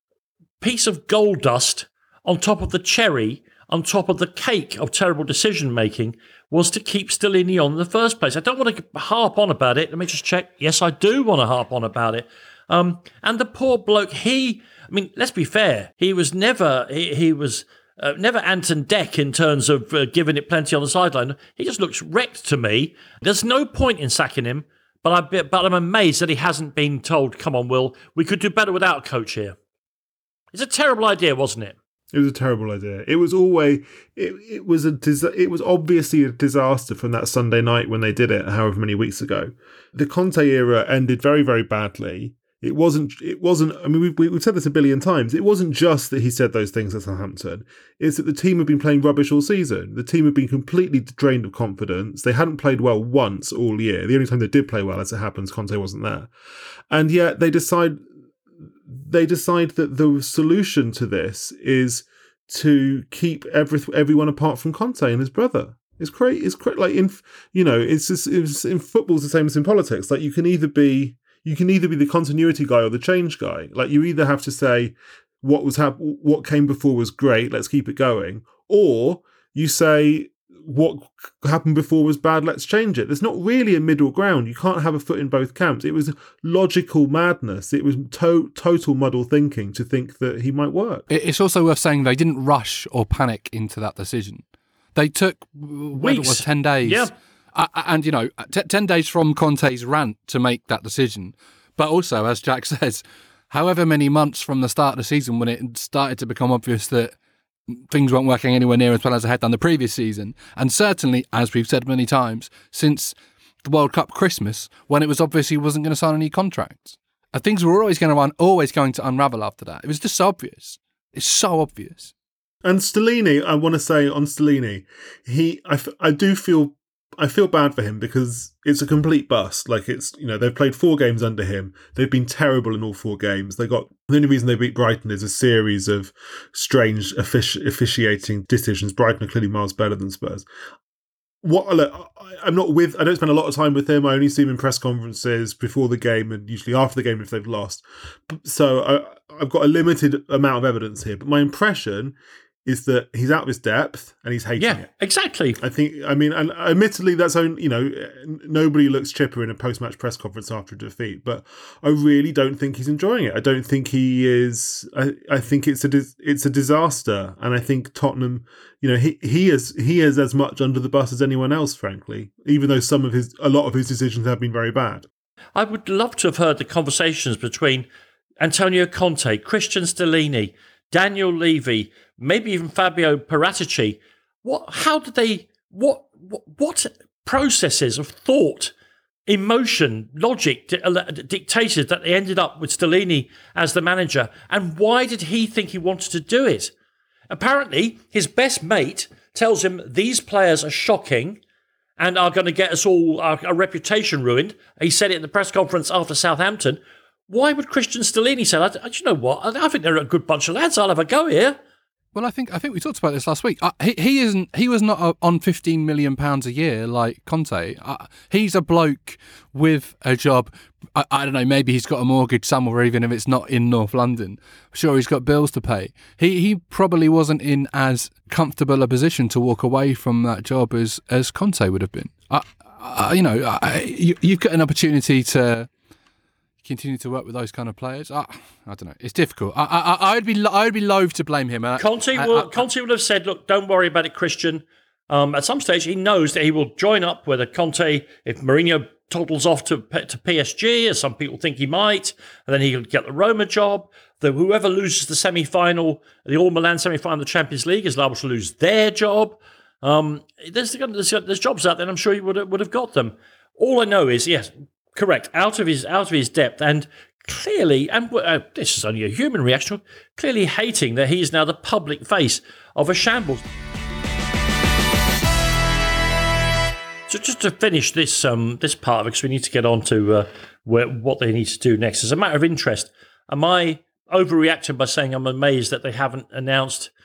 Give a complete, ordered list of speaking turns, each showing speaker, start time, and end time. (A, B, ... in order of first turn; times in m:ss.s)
0:00.6-0:29.6 A
0:30.5-0:31.8 A
0:32.1-0:56.3 B
0:56.9-0:58.0 B
0:58.9-1:31.0 B
1:31.1-1:34.4 C
1:34.9-1:47.1 C
1:36.0-1:37.1 A
1:47.7-2:02.1 C
2:02.6-2:20.4 B
2:21.4-2:34.9 B
2:34.6-2:35.6 A
2:35.6-2:55.0 B
2:55.6-2:57.9 A
2:58.4-3:08.7 A
3:09.3-3:16.7 A
3:17.3-3:21.4 A
3:22.0-3:31.6 A
3:32.1-3:55.7 C
3:56.6-4:02.6 C
4:01.8-4:33.4 A
4:37.1-4:46.9 A